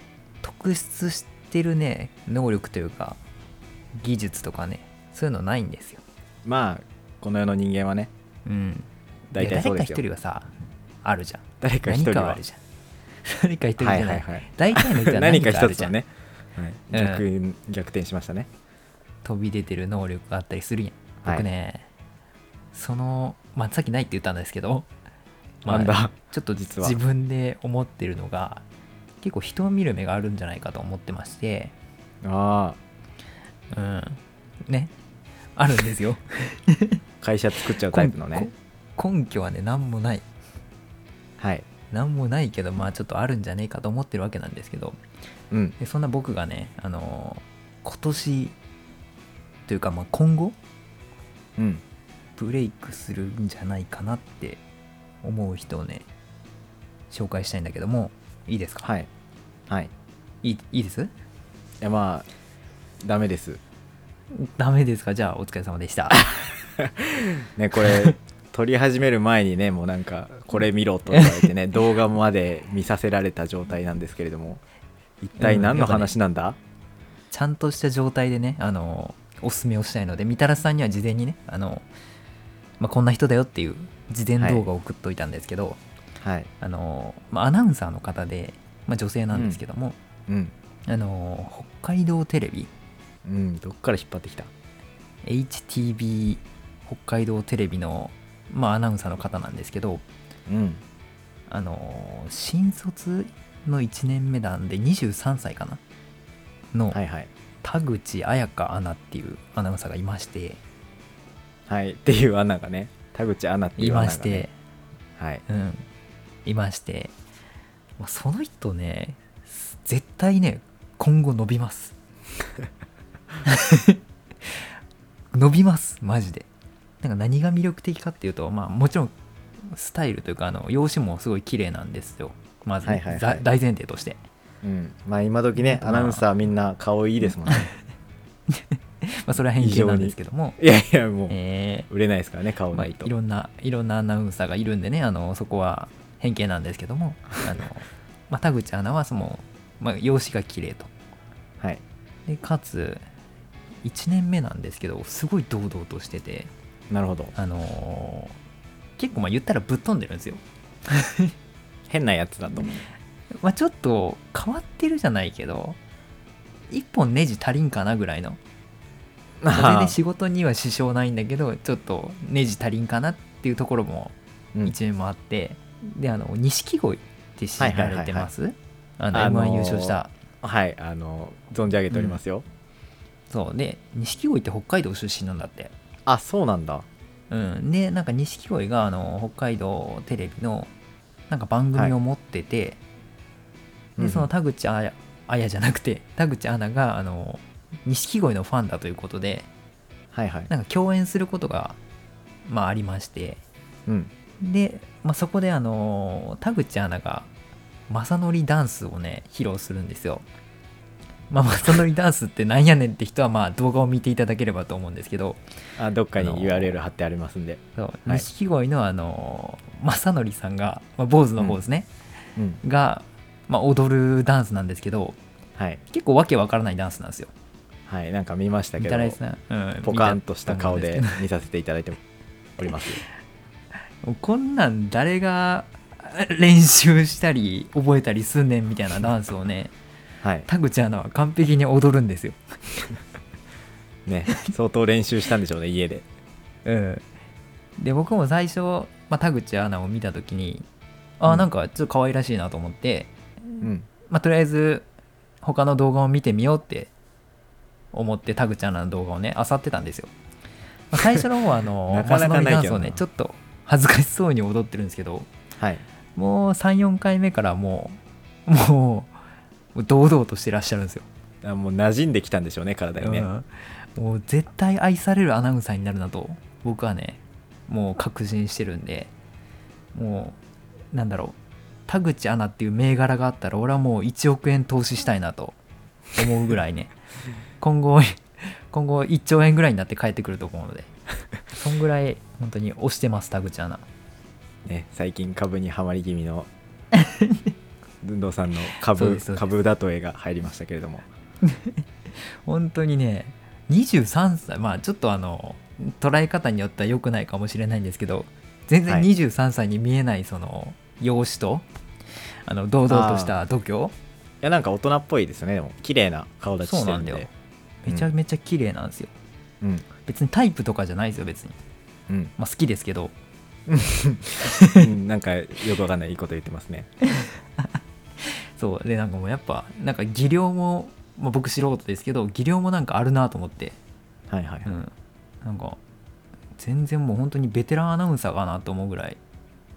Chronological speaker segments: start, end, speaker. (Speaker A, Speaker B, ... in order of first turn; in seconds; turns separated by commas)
Speaker A: 0.4-3.2, Speaker A: 4.0-6.0, Speaker B: 6.4-8.1, Speaker A: 8.4-10.5, Speaker B: 9.3-10.0, Speaker A: 11.0-12.6, Speaker B: 11.6-12.4, Speaker A: 13.2-15.9, Speaker B: 13.8-18.5, Speaker A: 16.9-17.2, Speaker A: 19.2-21.9, Speaker A: 22.7-24.9, Speaker A: 25.6-28.6, Speaker B: 25.7-27.0, Speaker A: 29.2-31.7, Speaker B: 32.2-32.8, Speaker A: 33.7-34.9, Speaker A: 35.6-37.0, Speaker B: 37.2-38.5, Speaker A: 37.9-40.2, Speaker B: 41.4-41.7, Speaker A: 41.9-45.0, Speaker B: 45.5-45.8, Speaker A: 45.8-48.5, Speaker A: 49.7-50.6, Speaker B: 51.6-51.8, Speaker A: 52.4-54.6, Speaker A: 55.2-56.1, Speaker A: 57.1-58.9, Speaker A: 60.4-61.1, Speaker B: 61.8-62.3, Speaker B: 63.0-63.6, Speaker A: 64.3-66.3, Speaker B: 66.8-74.6, Speaker A: 71.1-71.5, Speaker B: 75.2-76.6, Speaker A: 75.4-76.1, Speaker A: 77.3-81.9, Speaker A: 82.8-85.8, Speaker B: 84.4-84.7, Speaker B: 86.2-86.5, Speaker A: 86.6-90.0, Speaker B: 89.3-89.6, Speaker B: 90.3-90.5, Speaker A: 90.9-92.7, Speaker B: 93.2-94.5, Speaker A: 95.2-100.0, Speaker B: 100.5-100.8, Speaker A: 101.5-105.8, Speaker B: 106.9-107.3, Speaker A: 107.6-110.6, Speaker B: 111.7-114.5, Speaker A: 113.8-114.5, Speaker B: 115.2-115.4, Speaker A: 115.5-115.9, Speaker A: 116.5-117.1, Speaker A: 118.0-121.9, Speaker A: 123.5-124.0, Speaker A: 125.3-126.5, Speaker A: 127.0-129.1, Speaker A: 129.7-134.2, Speaker B: 132.8-133.4, Speaker B: 134.6-137.7, Speaker A: 135.6-136.2, Speaker A: 138.5-140.6, Speaker B: 139.6-141.4, Speaker A: 141.3-141.9, Speaker B: 141.9-143.1, Speaker A: 142.7-150.9, Speaker A: 152.3-153.0, Speaker A: 153.8-156.5, Speaker B: 156.9-157.3, Speaker A: 157.3-158.4, Speaker A: 159.0-161.3, Speaker B: 161.9-162.8, Speaker A: 163.4-165.8, Speaker A: 166.7-168.4, Speaker B: 169.4-170.0, Speaker A: 169.5-180.1, Speaker B: 177.6-178.3, Speaker B: 179.1-182.4, Speaker A: 181.9-182.2, Speaker A: 183.3-185.7, Speaker B: 186.1-186.9, Speaker A: 187.3-190.7, Speaker A: 191.3-192.8, Speaker B: 194.0-194.3, Speaker A: 194.0-199.5, Speaker B: 200.1-200.5, Speaker A: 200.5-201.8, Speaker A: 202.5-203.4, Speaker B: 203.9-204.1, Speaker A: 204.4-207.3, Speaker A: 207.9-210.2, Speaker A: 211.3-215.4, Speaker B: 215.8-218.3, Speaker A: 216.2-216.8, Speaker A: 217.8-221.9, Speaker A: 222.6-225.2, Speaker A: 225.9-227.3, Speaker B: 227.9-229.2, Speaker A: 228.8-231.2, Speaker B: 229.8-232.0, Speaker B: 232.6-233.0, Speaker A: 234.0-239.7, Speaker B: 240.2-240.5, Speaker A: 240.5-242.4, Speaker B: 244.1-246.1, Speaker A: 246.7-247.1, Speaker A: 247.8-250.7, Speaker A: 251.2-254.9, Speaker B: 253.6-253.9, Speaker A: 255.4-256.9, Speaker A: 257.9-260.1, Speaker A: 260.9-265.3, Speaker B: 261.9-263.0, Speaker B: 265.6-265.8, Speaker A: 266.2-269.1, Speaker A: 269.7-271.1, Speaker B: 271.4-273.3, Speaker A: 273.0-279.1, Speaker A: 279.9-280.4, Speaker A: 280.9-281.4, Speaker A: 281.9-285.6, Speaker A: 286.1-286.9, Speaker A: 287.6-290.9, Speaker A: 291.5-293.8, Speaker B: 294.7-296.5, Speaker A: 296.9-297.5, Speaker B: 298.0-301.1, Speaker A: 298.9-299.4, Speaker A: 301.4-301.8, Speaker A: 302.4-311.6, Speaker A: 312.4-313.9, Speaker B: 312.9-313.4, Speaker B: 314.4-317.3, Speaker A: 316.6-317.3, Speaker A: 317.8-319.1, Speaker B: 319.6-319.9, Speaker A: 320.0-321.6, Speaker A: 322.4-323.1, Speaker B: 323.7-326.9, Speaker A: 324.4-324.9, Speaker A: 327.2-327.6, Speaker A: 328.2-333.8, Speaker B: 334.3-334.7, Speaker A: 334.7-335.8, Speaker A: 336.6-339.2